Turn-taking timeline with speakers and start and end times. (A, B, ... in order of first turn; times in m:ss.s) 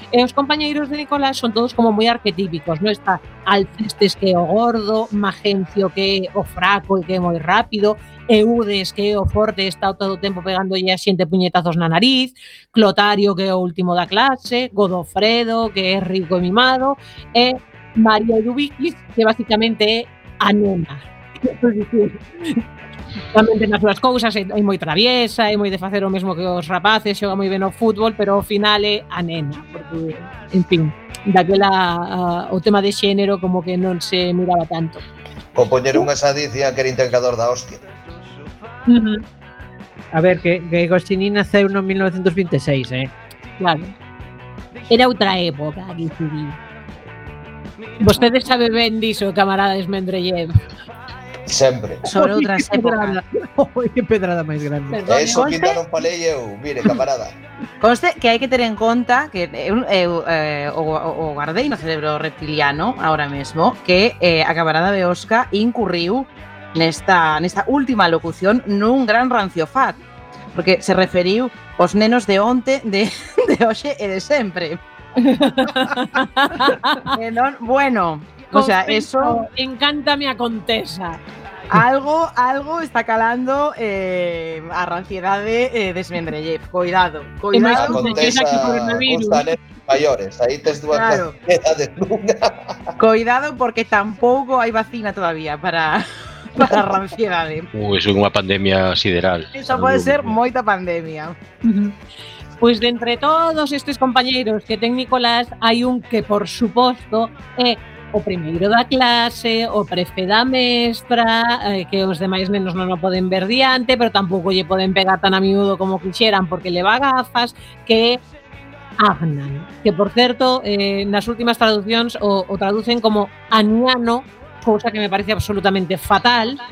0:00.1-0:22.6 A
0:23.3-0:35.0 A
0:35.5-0:37.8 B
0:38.9-0:39.2 A
0:40.1-0:43.1 C
0:43.6-0:43.9 A
0:44.9-0:46.6 A
0:48.0-0:50.6 A
0:51.5-0:52.0 B
0:52.0-0:53.2 D
0:52.1-0:55.0 C
0:54.9-0:55.7 A
0:55.1-0:57.4 B
0:55.3-0:55.7 D
0:57.8-1:10.0 D
1:10.5-1:14.8 D
1:15.3-1:17.1 A
1:17.1-1:19.4 D
1:18.5-1:21.2 A
1:21.7-1:28.4 D
1:27.5-1:29.4 A
1:27.7-1:32.7 B
1:30.9-1:31.4 D
1:33.0-1:37.7 D
1:37.7-1:40.4 E
1:39.5-1:41.4 D
1:41.6-1:42.0 A
1:42.6-1:58.2 A
1:59.0-2:06.6 A